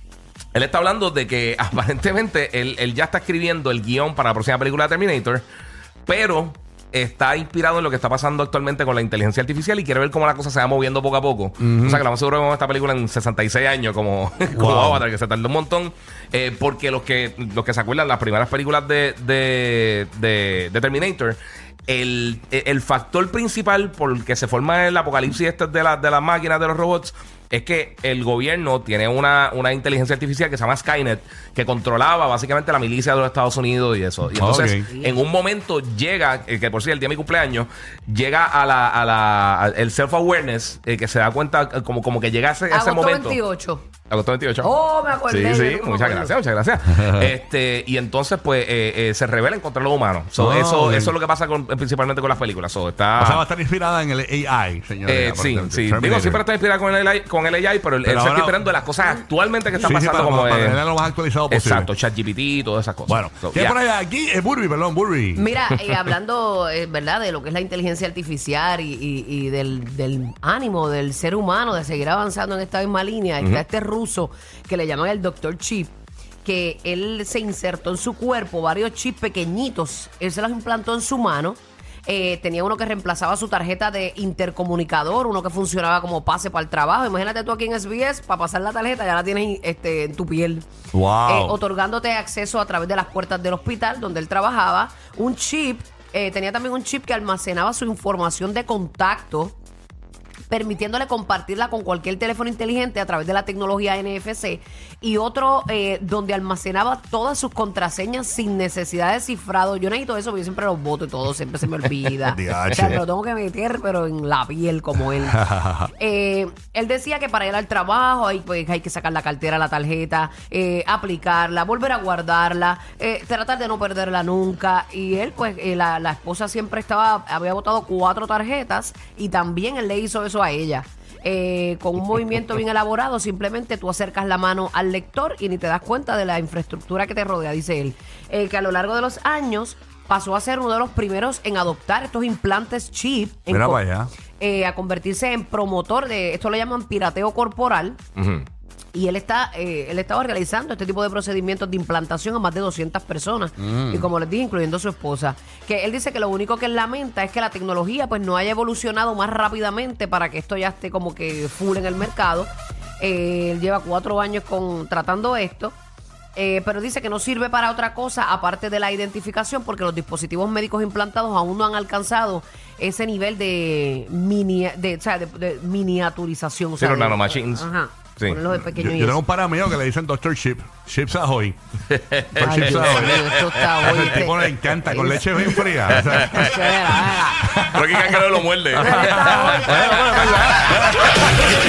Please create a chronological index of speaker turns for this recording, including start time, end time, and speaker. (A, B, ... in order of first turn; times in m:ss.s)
0:00.5-0:05.4 A
0:06.1-0:43.4 A
0:11.6-0:12.0 B
0:14.5-0:15.0 B
0:34.4-0:34.9 B
0:34.4-0:35.2 C
0:42.7-0:43.9 C
0:44.1-0:44.7 A
0:44.6-0:46.4 C
0:45.3-0:53.4 A
0:46.9-0:47.3 B
0:50.4-0:51.1 B
0:53.2-0:56.4 B
0:55.0-1:00.8 A
0:58.0-0:58.6 B
0:59.7-1:01.9 B
1:01.5-1:03.7 A
1:03.1-1:06.1 B
1:05.4-1:30.7 C
1:30.9-1:31.6 B
1:31.2-1:39.6 C
1:40.5-2:23.8 C
1:52.2-1:53.0 B
1:55.2-1:55.9 B
2:23.5-2:24.1 B
2:24.4-2:28.0 C
2:28.2-2:28.5 A
2:28.9-2:45.8 C
2:33.6-2:34.1 B
2:46.4-2:59.2 C
2:56.8-2:57.7 A
2:58.5-3:01.6 B
3:01.9-3:04.3 A
3:02.3-3:06.8 B
3:02.4-3:07.6 C
3:05.5-3:06.7 A
3:07.4-3:11.3 B
3:07.6-3:10.8 A
3:08.8-3:09.7 C